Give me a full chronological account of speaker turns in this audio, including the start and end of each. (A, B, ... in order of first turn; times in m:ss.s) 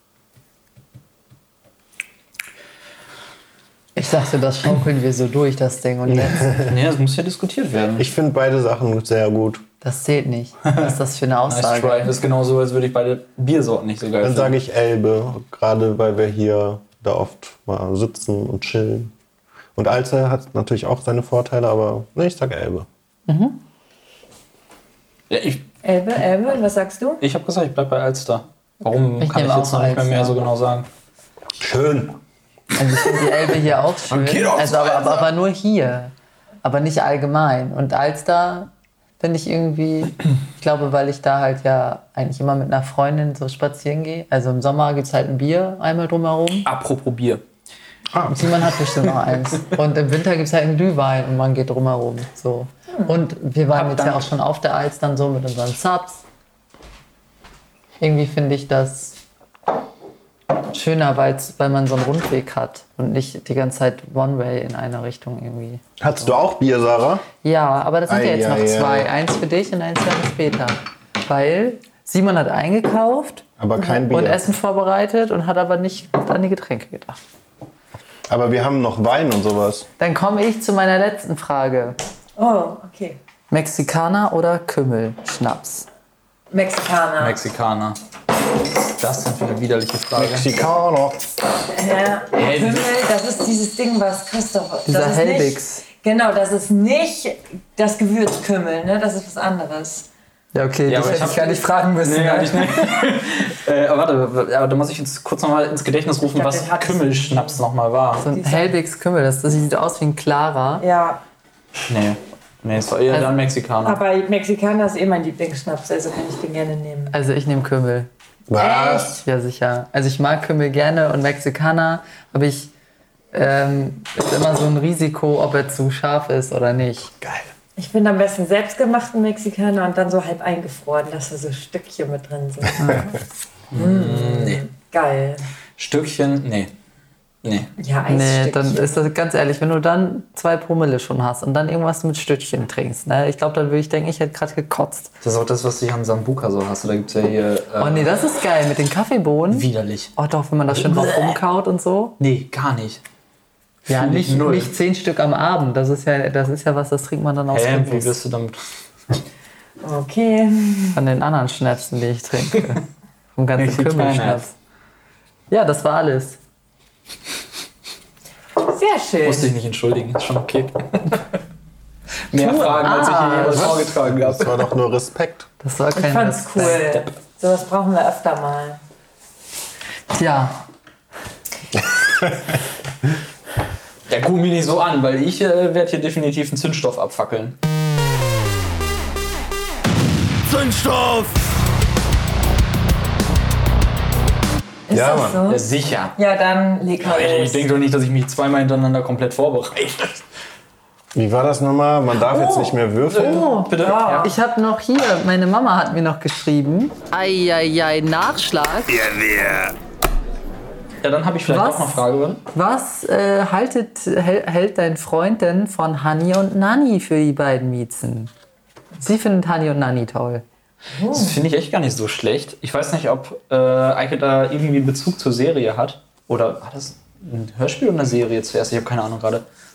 0:04.0-0:06.6 A
0:06.1-0:06.8 B
0:06.6-0:08.1 C
0:08.0-0:09.6 B
0:09.8-0:12.1 A
0:11.5-0:14.5 C
0:14.2-0:19.1 B
0:19.8-0:22.9 B
0:23.3-0:23.6 A
0:25.3-0:25.6 C
0:25.8-0:27.2 D
0:27.2-0:30.9 C
0:29.2-0:30.3 A
0:31.6-0:32.2 B
0:32.7-0:36.1 A
0:34.1-0:35.3 C
0:36.6-0:46.7 A
0:46.6-0:47.4 C
0:48.1-0:48.4 B
0:48.3-0:56.2 A
0:53.7-0:54.2 C
0:58.0-0:59.2 A
1:00.7-1:05.8 A
1:06.0-1:07.2 B
1:07.4-1:17.2 A
1:08.0-1:09.1 B
1:13.6-1:14.4 B
1:18.3-1:19.9 B
1:20.0-1:22.0 A
1:22.4-1:23.2 D
1:23.5-1:25.9 A
1:26.5-1:27.4 D
1:27.2-1:28.0 C
1:28.9-1:30.5 C
1:30.2-1:31.3 B
1:31.7-1:40.1 D
1:32.3-1:32.9 C
1:34.8-1:35.8 A
1:40.5-1:43.0 A
1:40.9-1:48.2 C
1:46.2-1:47.6 D
1:48.2-1:50.8 A
1:48.3-1:48.7 D
1:50.8-1:51.2 D
1:51.9-1:54.0 C
1:53.8-1:57.2 D
1:57.1-1:58.1 A
1:58.5-1:59.1 B
1:58.6-1:59.2 D
1:58.9-2:02.7 A
2:03.3-2:07.1 A
2:07.8-2:15.4 D
2:12.8-2:13.1 A
2:13.7-2:14.6 C
2:15.8-2:16.7 C
2:17.4-2:17.7 C
2:17.8-2:19.0 D
2:18.1-2:25.1 A
2:25.2-2:28.1 C
2:27.8-2:32.2 A
2:29.5-2:30.1 C
2:30.7-2:31.4 C
2:32.2-2:33.0 C
2:33.8-2:34.7 C
2:33.9-2:38.2 A
2:37.5-2:38.6 C
2:39.8-2:41.0 D
2:40.9-2:42.8 A
2:43.4-2:44.5 A
2:43.6-2:44.4 C
2:45.5-2:46.4 A
2:48.7-2:49.5 D
2:49.2-2:51.2 C
2:52.3-2:54.5 C
2:52.3-2:53.8 A
2:53.4-2:55.5 B
2:55.6-2:56.8 A
2:55.9-2:58.8 D
3:00.1-3:00.6 A
3:02.0-3:02.4 B
3:04.1-3:07.6 C
3:10.6-3:11.2 C
3:14.9-3:17.6 D
3:14.9-3:15.4 B
3:15.5-3:16.2 C
3:17.0-3:20.2 C
3:21.1-3:23.6 B
3:22.3-3:29.2 A
3:23.1-3:24.3 C
3:23.8-3:24.3 D
3:31.0-3:32.4 C
3:31.4-3:38.3 A
3:39.0-3:40.4 A
3:40.9-3:41.4 D
3:41.1-3:49.4 C